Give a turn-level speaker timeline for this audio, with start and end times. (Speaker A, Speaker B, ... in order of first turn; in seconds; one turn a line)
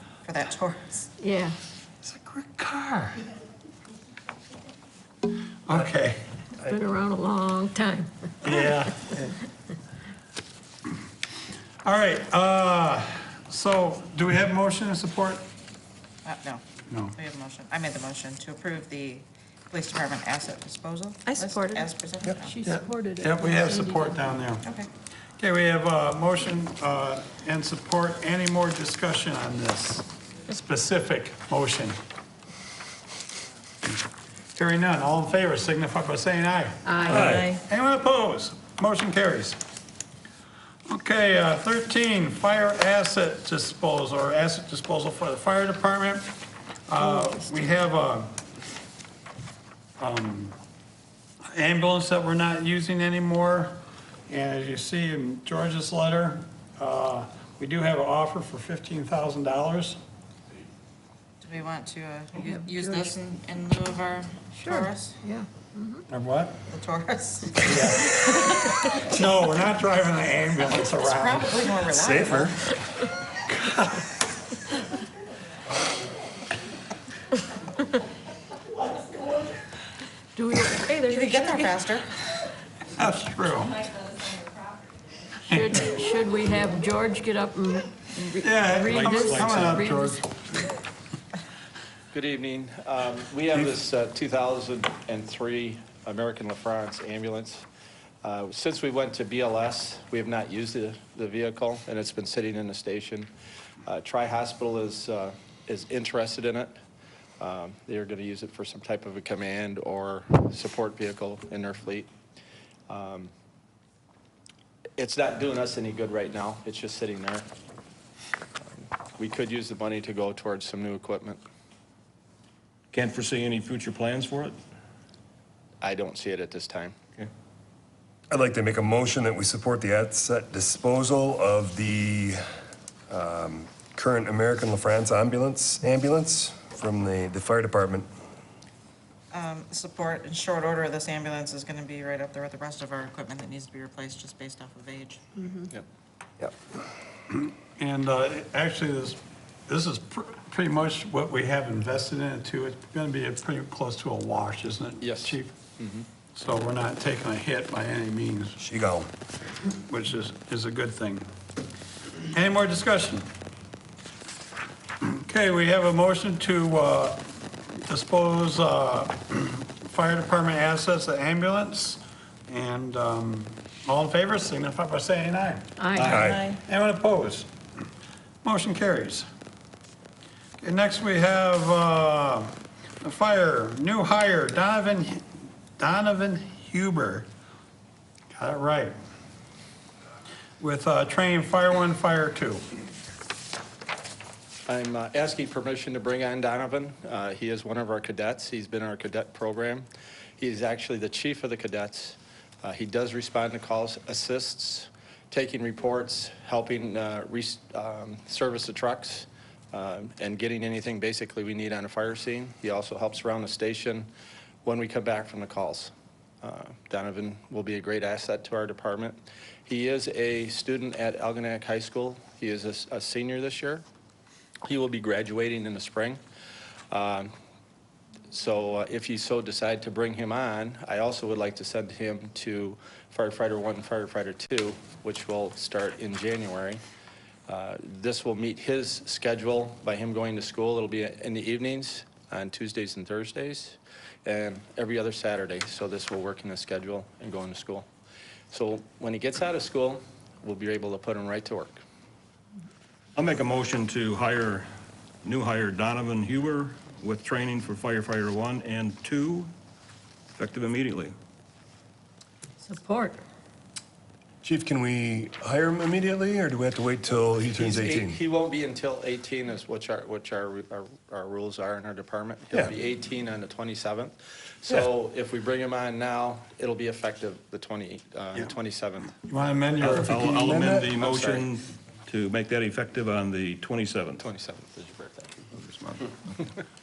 Speaker A: 0.2-1.1
Speaker B: 1.2-1.6
Speaker C: 2.0-3.2
Speaker C: 5.7-6.2
Speaker B: 6.6-8.7
Speaker C: 8.4-9.4
Speaker C: 11.8-15.4
Speaker A: 16.2-22.6
Speaker C: 16.9-17.2
Speaker B: 21.2-24.4
Speaker C: 22.6-24.6
Speaker C: 25.4-32.0
Speaker C: 34.5-39.6
Speaker B: 36.9-37.3
Speaker C: 40.9-46.3
Speaker C: 46.9-48.4
Speaker B: 47.0-47.3
Speaker C: 50.0-50.6
Speaker C: 51.5-60.0
Speaker A: 61.4-65.2
Speaker B: 62.5-63.1
Speaker B: 64.6-66.0
Speaker C: 66.1-66.6
Speaker A: 66.7-68.7
Speaker C: 67.7-68.3
Speaker C: 69.0-71.8
Speaker A: 71.0-72.6
Speaker D: 71.9-72.7
Speaker C: 73.5-74.1
Speaker B: 80.4-81.8
Speaker A: 81.0-82.1
Speaker C: 82.9-83.9
Speaker B: 85.5-90.2
Speaker C: 85.5-85.8
Speaker C: 88.4-90.7
Speaker E: 89.0-89.5
Speaker F: 92.1-97.7
Speaker F: 98.2-103.3
Speaker F: 103.9-106.8
Speaker F: 107.4-112.1
Speaker F: 112.9-113.3
Speaker F: 115.0-117.5
Speaker F: 118.7-121.4
Speaker E: 122.9-124.6
Speaker F: 125.8-127.0
Speaker D: 128.3-132.4
Speaker D: 133.1-138.1
Speaker A: 139.3-145.2
Speaker C: 147.3-155.5
Speaker F: 155.0-156.1
Speaker C: 156.3-158.6
Speaker D: 158.6-159.1
Speaker C: 159.9-161.3
Speaker C: 162.3-163.3
Speaker C: 165.0-167.2
Speaker C: 167.8-175.7
Speaker B: 175.8-176.2
Speaker E: 176.0-176.5
Speaker D: 176.1-176.4
Speaker C: 176.5-177.5
Speaker C: 178.4-179.3
Speaker C: 180.6-185.2
Speaker C: 185.8-187.3
Speaker C: 188.3-188.9
Speaker C: 190.6-192.6
Speaker F: 194.7-214.1
Speaker F: 214.7-215.9
Speaker F: 216.4-223.9
Speaker F: 224.7-226.2
Speaker F: 226.9-227.3
Speaker F: 228.3-236.8
Speaker F: 237.5-247.9
Speaker F: 248.5-251.8
Speaker E: 253.2-254.7
Speaker E: 255.2-259.5
Speaker E: 260.4-261.1
Speaker B: 262.6-263.2
Speaker D: 264.4-268.2
Speaker F: 267.5-279.2
Speaker C: 279.1-280.9
Speaker E: 279.8-284.2
Speaker D: 280.5-280.9
Speaker F: 280.9-281.5
Speaker F: 284.2-285.5